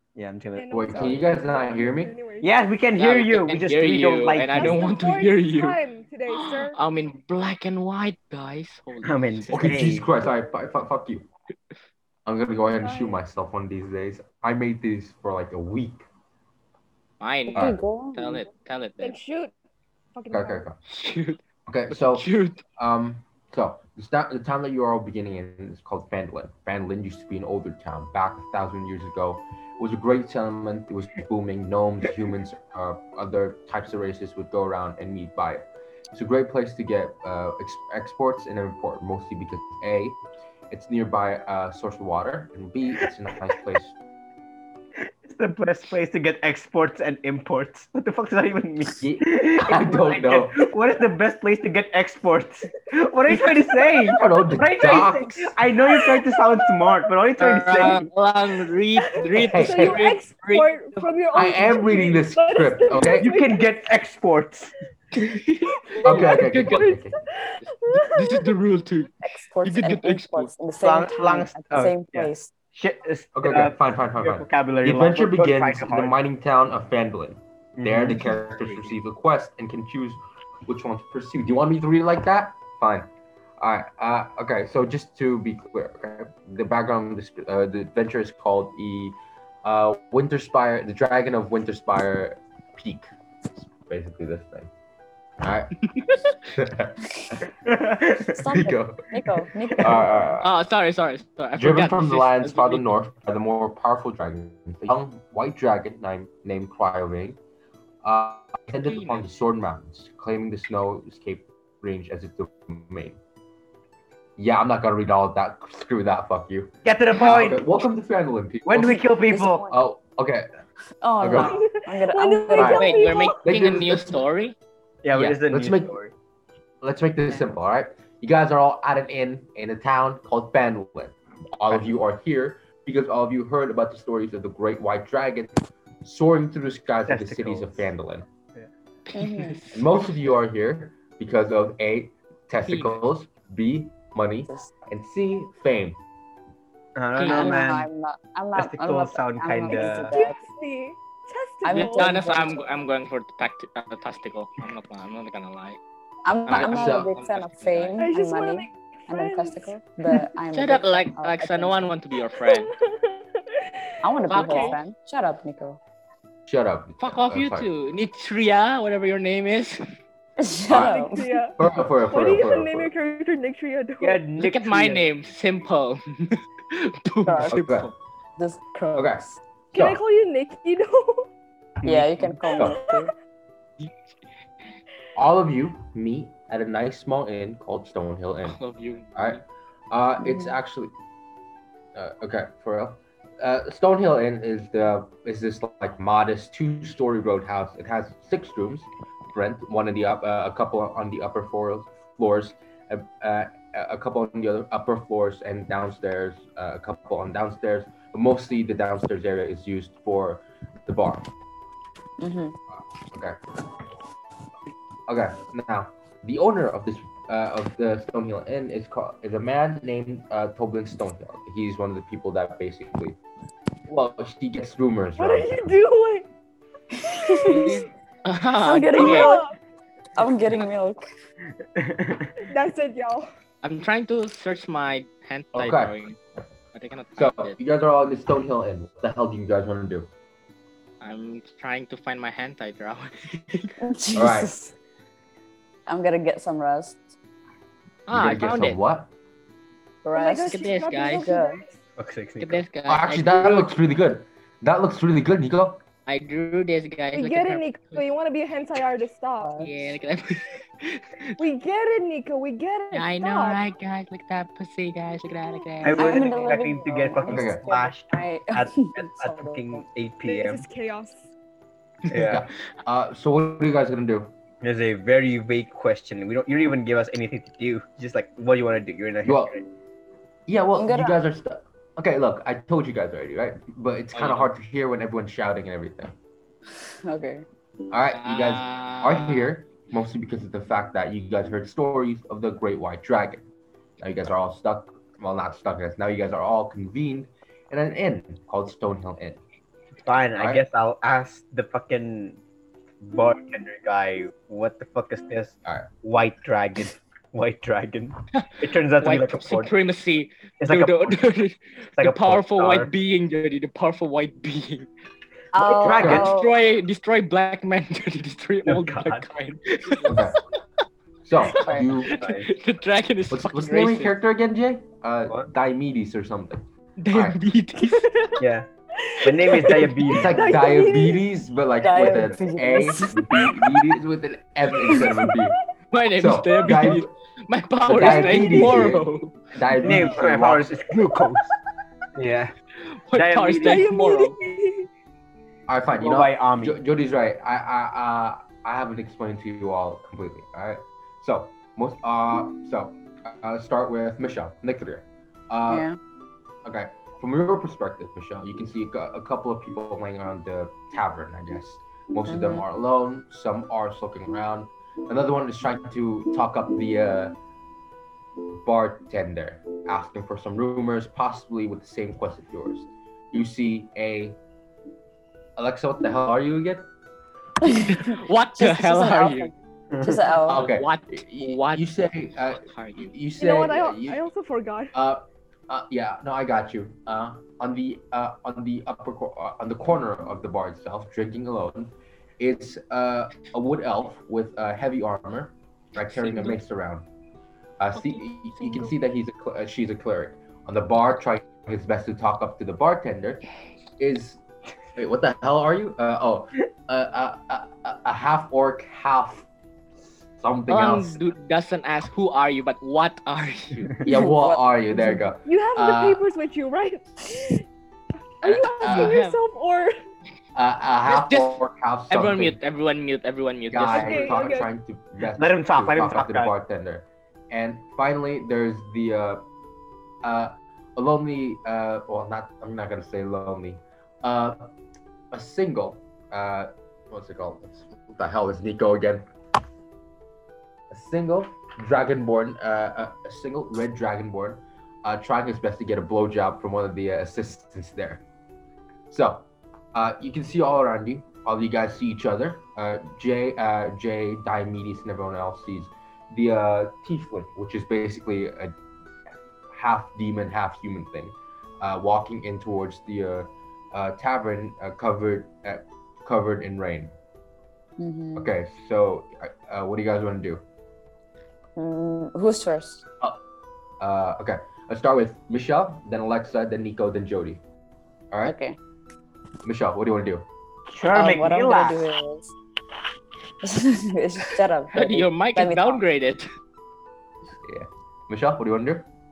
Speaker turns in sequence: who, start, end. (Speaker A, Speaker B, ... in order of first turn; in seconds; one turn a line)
Speaker A: 0.1-1.1
Speaker B: 0.6-2.5
Speaker C: 0.7-2.1
Speaker A: 2.4-4.9
Speaker D: 3.0-5.8
Speaker B: 4.5-6.8
Speaker D: 6.3-9.6
Speaker A: 9.0-10.1
Speaker C: 9.5-11.3
Speaker C: 12.2-16.0
Speaker B: 12.7-13.2
Speaker D: 17.2-19.2
Speaker C: 17.5-17.8
Speaker E: 17.5-18.5
Speaker B: 19.0-19.5
Speaker B: 20.1-20.7
Speaker C: 20.3-20.8
Speaker D: 20.9-21.4
Speaker C: 21.7-22.2
Speaker D: 21.9-22.6
Speaker C: 22.8-40.2
Speaker C: 40.7-44.0
Speaker A: 45.2-58.1
Speaker C: 49.0-50.6
Speaker B: 53.3-54.2
Speaker C: 54.1-55.5
Speaker B: 55.9-57.0
Speaker D: 57.4-61.1
Speaker B: 59.3-63.7
Speaker C: 59.4-60.0
Speaker C: 61.3-63.3
Speaker A: 63.2-64.7
Speaker D: 65.1-66.9
Speaker B: 65.9-68.5
Speaker C: 66.0-67.2
Speaker D: 67.6-70.5
Speaker E: 69.2-72.5
Speaker A: 70.8-76.2
Speaker C: 73.3-83.1
Speaker A: 77.8-78.9
Speaker C: 83.6-94.7
Speaker C: 95.4-97.4
Speaker A: 97.7-98.3
Speaker E: 98.3-100.3
Speaker C: 98.5-99.0
Speaker C: 99.8-100.5
Speaker D: 100.4-102.8
Speaker C: 101.5-107.4
Speaker C: 108.0-113.2
Speaker D: 108.8-109.2
Speaker C: 114.4-119.1
Speaker A: 116.8-117.7
Speaker A: 118.7-119.7
Speaker E: 119.2-119.7
Speaker C: 119.7-120.5
Speaker E: 121.0-123.1
Speaker C: 121.2-121.6
Speaker B: 121.3-123.4
Speaker C: 122.6-122.8
Speaker D: 122.6-124.5
Speaker C: 123.4-124.2
Speaker A: 125.0-126.1
Speaker C: 125.1-126.0
Speaker C: 126.8-138.3
Speaker A: 137.1-137.9
Speaker D: 139.1-139.8
Speaker E: 139.2-139.6
Speaker C: 139.7-146.0
Speaker D: 142.7-143.0
Speaker A: 146.9-147.9
Speaker D: 147.1-147.6
Speaker E: 147.2-150.4
Speaker A: 148.6-150.1
Speaker B: 149.7-152.2
Speaker E: 151.6-152.6
Speaker D: 151.7-155.8
Speaker E: 156.2-161.8
Speaker D: 156.4-158.0
Speaker C: 156.5-157.2
Speaker B: 158.0-160.2
Speaker D: 160.5-162.7
Speaker B: 162.4-164.8
Speaker E: 164.0-165.8
Speaker D: 164.3-164.8
Speaker C: 166.5-167.7
Speaker D: 167.0-169.8
Speaker E: 170.4-171.2
Speaker C: 170.7-171.0
Speaker B: 170.8-174.2
Speaker C: 171.6-172.9
Speaker A: 174.0-175.1
Speaker D: 174.4-177.9
Speaker E: 177.2-177.6
Speaker C: 177.5-177.9
Speaker E: 178.4-179.4
Speaker C: 178.9-180.0
Speaker B: 179.7-181.3
Speaker A: 181.8-182.4
Speaker E: 181.8-183.1
Speaker B: 182.6-183.1
Speaker C: 185.1-188.6
Speaker D: 188.4-189.4
Speaker C: 189.2-190.9
Speaker E: 190.2-190.6
Speaker C: 191.9-211.3
Speaker E: 212.2-212.6
Speaker C: 213.1-213.4
Speaker C: 215.1-223.2
Speaker C: 223.9-225.7
Speaker B: 225.2-226.3
Speaker E: 227.0-227.8
Speaker B: 227.3-227.7
Speaker D: 227.5-229.4
Speaker E: 228.6-229.4
Speaker B: 228.9-229.5
Speaker E: 230.2-231.1
Speaker A: 231.8-232.3
Speaker B: 232.5-233.3
Speaker D: 233.6-236.2
Speaker C: 235.5-236.0
Speaker D: 236.7-237.6
Speaker C: 237.2-240.1
Speaker D: 241.0-243.7
Speaker E: 243.8-244.7
Speaker C: 244.1-244.5
Speaker E: 245.9-247.1
Speaker D: 248.1-248.8
Speaker C: 248.1-249.1
Speaker E: 250.0-250.6
Speaker B: 250.1-251.8
Speaker D: 250.4-251.3
Speaker E: 251.1-251.6
Speaker A: 252.0-252.6
Speaker D: 252.4-253.7
Speaker C: 252.9-255.8
Speaker D: 256.1-258.1
Speaker B: 257.1-259.7
Speaker E: 259.4-259.7
Speaker D: 259.6-261.4
Speaker B: 261.4-263.6
Speaker D: 262.9-266.2
Speaker A: 265.8-270.6
Speaker E: 265.9-269.8
Speaker C: 267.3-267.6
Speaker B: 270.2-271.3
Speaker A: 272.1-272.4
Speaker C: 272.1-274.3
Speaker A: 274.6-279.6
Speaker C: 279.2-279.6
Speaker C: 280.5-286.1
Speaker E: 280.8-281.2
Speaker D: 284.1-284.5
Speaker E: 287.0-287.4
Speaker C: 287.9-293.4
Speaker D: 288.1-289.5
Speaker C: 294.0-299.4
Speaker A: 300.1-302.4
Speaker C: 300.4-300.6
Speaker A: 303.0-309.7
Speaker D: 308.3-314.9
Speaker A: 310.6-311.2
Speaker A: 312.0-312.9
Speaker E: 315.5-316.5
Speaker A: 315.7-316.3
Speaker C: 315.9-316.2
Speaker D: 315.9-320.1
Speaker A: 318.6-319.2
Speaker C: 320.1-320.4
Speaker C: 321.2-322.2
Speaker E: 321.6-321.9
Speaker D: 322.0-324.1
Speaker A: 322.1-322.5
Speaker C: 323.3-327.4
Speaker D: 327.0-328.3
Speaker B: 327.9-328.3
Speaker A: 328.4-328.7
Speaker B: 329.0-331.2
Speaker A: 329.2-330.4
Speaker C: 330.1-335.6
Speaker E: 331.8-333.5
Speaker D: 335.9-339.3
Speaker C: 336.1-337.1
Speaker C: 337.8-340.8
Speaker A: 338.0-338.6
Speaker A: 339.8-341.5
Speaker A: 342.1-342.5
Speaker D: 342.8-344.4
Speaker A: 343.1-343.9
Speaker B: 343.6-344.9
Speaker C: 345.7-355.9
Speaker A: 346.0-346.8
Speaker E: 355.7-355.9
Speaker C: 356.6-367.4
Speaker E: 362.3-362.6
Speaker C: 368.6-374.4
Speaker C: 375.6-376.9
Speaker E: 377.6-380.6
Speaker D: 377.6-379.5
Speaker A: 379.9-380.2
Speaker C: 380.4-384.2
Speaker D: 380.5-383.1
Speaker B: 383.4-384.9
Speaker C: 384.9-397.0
Speaker D: 396.0-396.6
Speaker C: 397.8-403.4
Speaker D: 397.9-398.9
Speaker C: 404.0-404.4
Speaker C: 404.9-409.4
Speaker C: 410.4-411.2
Speaker D: 410.7-413.9
Speaker C: 414.0-416.2
Speaker E: 414.0-415.2
Speaker B: 415.4-417.6
Speaker B: 418.4-419.9
Speaker C: 418.4-419.2
Speaker D: 418.8-419.4
Speaker C: 420.5-422.6
Speaker D: 421.1-424.4
Speaker C: 423.7-429.4
Speaker B: 423.9-424.7
Speaker A: 425.3-426.5
Speaker C: 430.2-434.7
Speaker C: 435.3-439.2
Speaker C: 440.9-448.2
Speaker C: 449.1-458.7
Speaker C: 459.7-467.1
Speaker E: 468.0-468.5
Speaker C: 468.4-470.6
Speaker E: 471.8-473.1
Speaker C: 474.0-477.6
Speaker E: 478.4-478.8
Speaker C: 479.6-480.4
Speaker A: 480.9-482.0
Speaker E: 481.1-482.5
Speaker E: 483.6-486.0
Speaker D: 484.9-486.5
Speaker C: 487.6-489.1